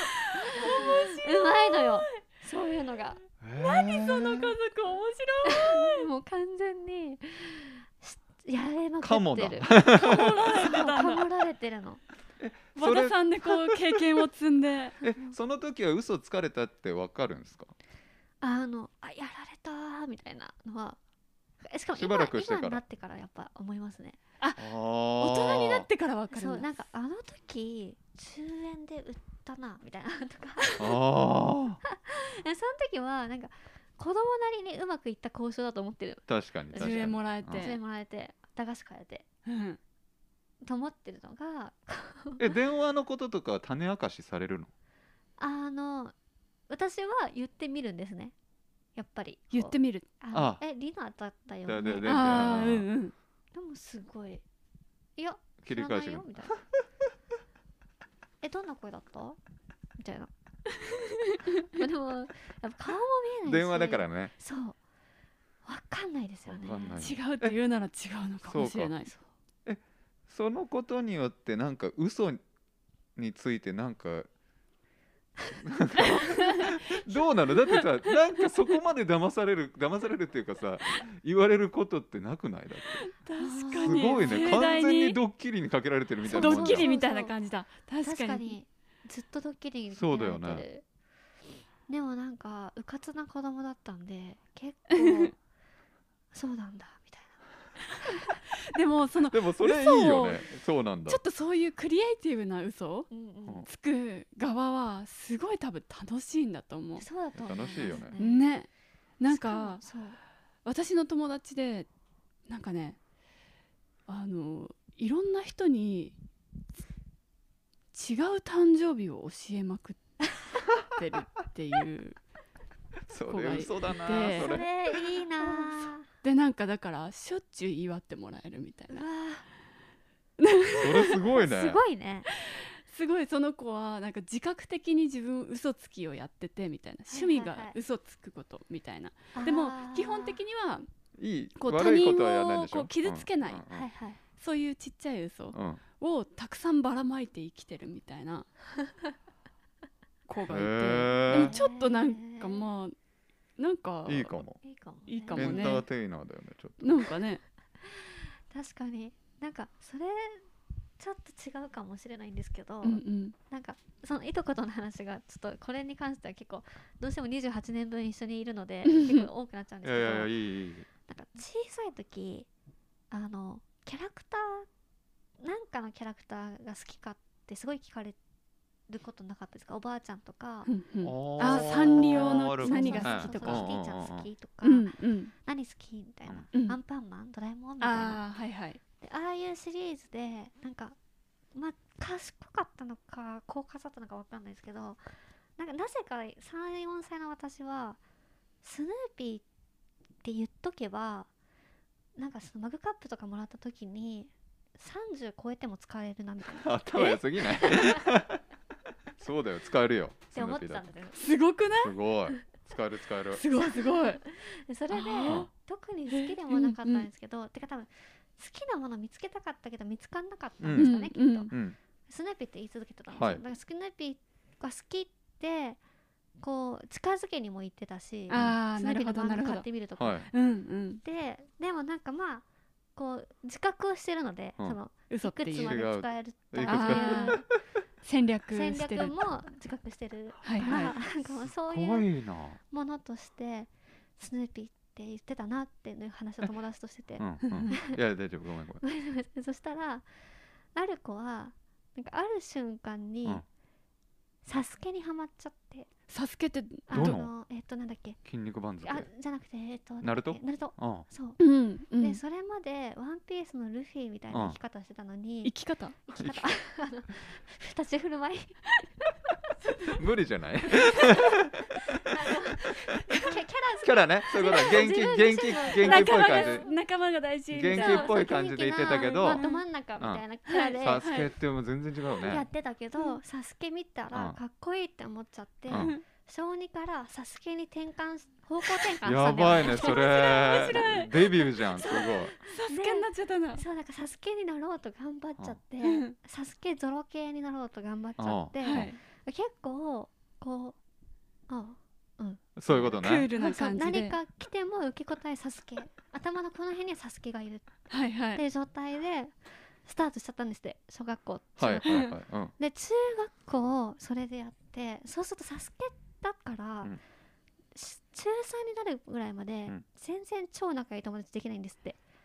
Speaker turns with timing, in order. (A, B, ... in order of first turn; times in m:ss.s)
0:00.3-0:02.0 A
0:00.3-0:03.2 B
0:03.4-0:04.5 C
0:03.6-0:06.1 A
0:05.5-0:09.8 B
0:09.0-0:10.4 C
0:09.8-0:11.2 A
0:10.5-0:12.0 B
0:12.4-0:13.7 C
0:12.7-0:15.0 A
0:15.0-0:17.7 C
0:15.0-0:15.4 B
0:18.4-0:21.0 B
0:21.6-0:24.2 B
0:22.0-0:22.8 C
0:24.4-0:24.6 A
0:24.6-0:25.9 C
0:25.2-0:26.7 A
0:26.3-0:31.0 B
0:30.8-0:31.8 C
0:31.8-0:39.2 B
0:36.3-0:37.7 C
0:36.7-0:37.8 A
0:39.4-0:39.8 A
0:40.6-0:42.5 B
0:42.4-0:44.7 C
0:45.4-0:46.1 B
0:46.7-0:48.3 B
0:49.0-0:52.7 B
0:49.5-0:50.0 A
0:50.3-0:50.6 C
0:51.6-0:52.9 C
0:52.0-0:53.1 A
0:53.5-0:54.4 B
0:55.2-0:56.6 B
0:55.6-0:56.3 C
0:58.4-0:59.4 B
1:00.0-1:00.3 B
1:01.7-1:04.8 B
1:03.4-1:04.3 C
1:05.6-1:07.1 B
1:06.4-1:07.6 C
1:07.0-1:09.1 A
1:08.4-1:09.0 C
1:09.6-1:12.4 C
1:13.2-1:14.3 C
1:15.6-1:23.1 C
1:17.8-1:18.2 A
1:22.9-1:25.2 A
1:23.4-1:24.8 B
1:23.7-1:26.9 C
1:26.2-1:28.5 A
1:26.3-1:27.3 B
1:28.0-1:30.8 B
1:29.9-1:30.6 C
1:31.9-1:35.4 B
1:34.9-1:35.3 A
1:36.3-1:37.4 B
1:38.1-1:40.5 A
1:39.3-1:41.2 C
1:41.0-1:43.1 A
1:43.1-1:43.6 B
1:43.6-1:47.0 A
1:47.0-1:48.4 B
1:47.3-1:48.2 C
1:48.2-1:49.8 A
1:49.3-1:50.2 B
1:50.6-1:51.9 A
1:52.5-1:53.0 A
1:54.1-1:56.2 A
1:57.9-2:02.2 A
2:03.1-2:04.7 C
2:03.3-2:04.7 A
2:04.3-2:06.0 B
2:05.4-2:09.0 A
2:08.9-2:09.4 B
2:10.4-2:11.2 A
2:10.7-2:11.8 C
2:11.3-2:12.3 B
2:12.3-2:20.9 A
2:17.1-2:17.8 B
2:19.3-2:20.4 B
2:21.2-2:23.8 C
2:21.6-2:23.6 A
2:23.7-2:24.2 B
2:24.4-2:28.5 A
2:25.5-2:25.8 C
2:30.3-2:32.9 A
2:30.5-2:31.6 C
2:31.3-2:32.7 B
2:33.6-2:34.4 A
2:34.0-2:34.6 C
2:34.6-2:35.8 B
2:35.1-2:35.8 A
2:35.3-2:37.0 C
2:36.8-2:37.4 A
2:37.8-2:40.4 B
2:41.0-2:50.3 B
2:42.8-2:43.3 A
2:48.8-2:49.3 A
2:49.8-2:50.9 C
2:51.1-2:52.5 B
2:53.1-2:54.7 B
2:55.4-2:58.2 B
2:58.9-3:00.7 B
3:00.6-3:03.7 A
3:01.0-3:04.3 C
3:01.3-3:08.2 B
3:04.6-3:05.3 A
3:07.8-3:08.8 A
3:09.0-3:11.0 B
3:11.5-3:18.0 B
3:18.6-3:19.4 B
3:20.2-3:21.3 B
3:22.2-3:28.0 B
3:26.5-3:28.4 C
3:29.2-3:30.8 C
3:30.3-3:31.3 B
3:31.2-3:31.9 A
3:31.8-3:33.4 C
3:33.3-3:34.2 A
3:33.5-3:41.5 B
3:34.9-3:35.5 A
3:36.1-3:37.1 A
3:40.6-3:40.9 C
3:40.7-3:41.5 A
3:41.5-3:41.8 C
3:42.1-3:45.8 B
3:43.1-3:43.4 C
3:46.4-3:50.3 B
3:48.3-3:49.7 A
3:50.0-3:50.3 C
3:50.3-3:51.0 A
3:51.0-3:52.4 B
3:52.9-3:57.4 B
3:55.1-3:55.8 A
3:55.6-3:57.4 C
3:56.7-3:57.4 A
3:58.0-3:59.2 A
3:58.5-4:08.0 B
4:00.4-4:00.9 A
4:01.4-4:02.6 C
4:07.2-4:08.8 C
4:07.4-4:07.7 A
4:08.8-4:10.1 B
4:10.7-4:13.4 B
4:14.4-4:15.9 B
4:16.1-4:17.2 A
4:16.9-4:18.2 B
4:16.9-4:17.3 C
4:18.2-4:19.1 C
4:18.8-4:21.4 B
4:20.0-4:21.0 C
4:21.4-4:22.2 A
4:22.0-4:28.6 B
4:24.3-4:24.6 C
4:25.4-4:26.0 A
4:26.2-4:26.4 C
4:29.9-4:31.5 C
4:31.9-4:36.7 B
4:33.8-4:36.6 C
4:35.8-4:38.2 A
4:37.5-4:39.4 C
4:37.7-4:41.1 B
4:38.9-4:39.6 A
4:40.5-4:41.3 A
4:40.8-4:42.4 C
4:42.2-4:51.0 B
4:44.1-4:44.4 C
4:45.7-4:45.9 C
4:45.7-4:46.0 A
4:49.0-4:52.4 C
4:49.6-4:53.6 A
4:51.7-5:00.8 B
4:55.8-4:56.1 A
4:58.2-4:58.9 C
4:58.6-4:59.0 A
5:01.5-5:17.0 B
5:02.6-5:03.3 C
5:03.0-5:04.2 A
5:07.9-5:08.4 A
5:11.6-5:12.5 C
5:11.8-5:12.1 A
5:17.7-5:22.0 B